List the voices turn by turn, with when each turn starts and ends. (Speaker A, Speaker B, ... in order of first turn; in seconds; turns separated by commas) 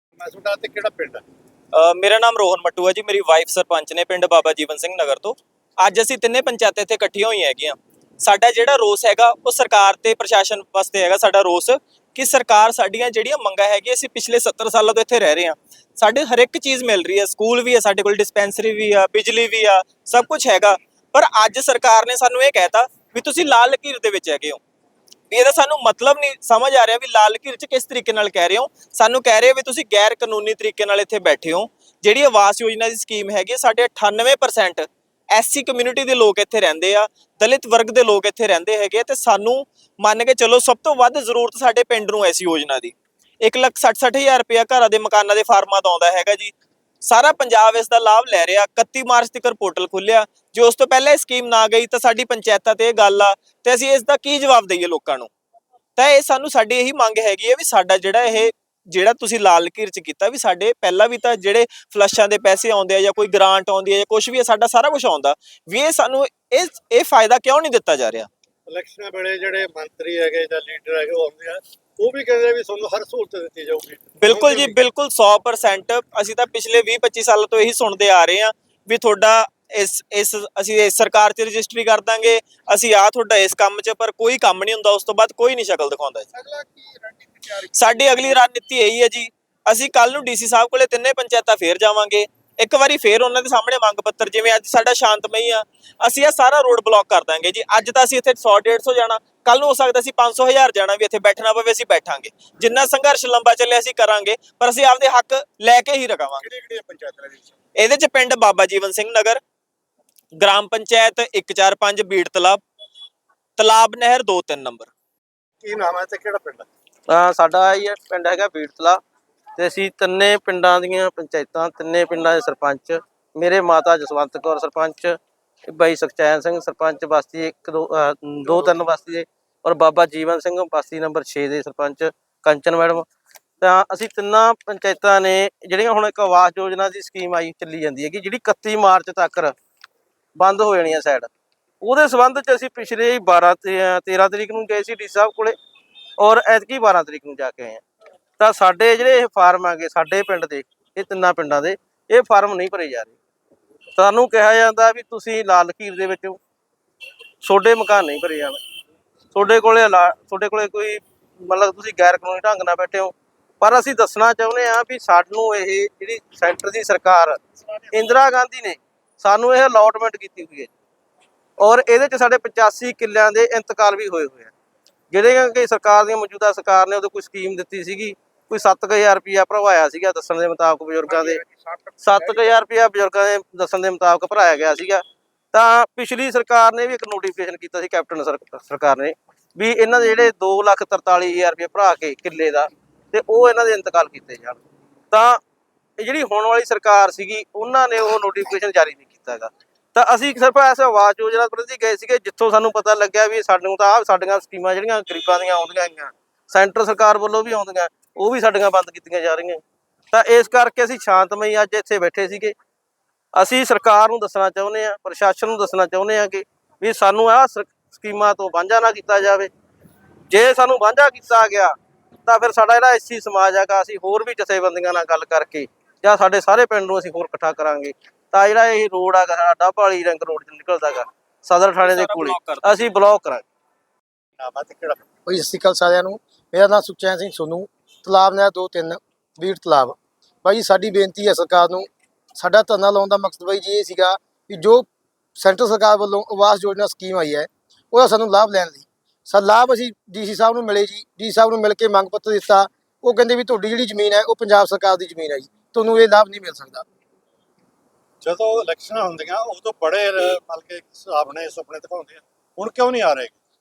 Speaker A: 0.2-1.2, Speaker B: 1.7-24.6, Speaker B: 25.3-55.3, Speaker B: 56.0-68.3, Speaker A: 68.7-74.8, Speaker B: 74.2-86.3, Speaker B: 87.6-106.5, Speaker A: 106.5-107.5, Speaker B: 107.8-109.4, Speaker B: 110.4-112.6, Speaker B: 113.6-114.9, Speaker A: 115.6-116.7, Speaker C: 117.1-119.0, Speaker C: 119.6-125.2, Speaker C: 125.7-133.1, Speaker C: 133.6-139.5, Speaker C: 140.4-141.3, Speaker C: 141.8-145.6, Speaker C: 146.2-147.8, Speaker C: 148.4-153.2, Speaker C: 154.0-156.4, Speaker C: 157.4-158.6, Speaker C: 159.3-167.4, Speaker C: 167.9-170.7, Speaker C: 171.6-174.5, Speaker C: 175.1-181.4, Speaker C: 182.0-194.6, Speaker C: 195.1-195.4, Speaker C: 196.0-212.5, Speaker C: 213.3-219.5, Speaker C: 220.3-233.4, Speaker B: 231.8-232.8, Speaker A: 234.4-235.0, Speaker D: 235.3-244.8, Speaker D: 245.4-256.8, Speaker A: 258.2-263.4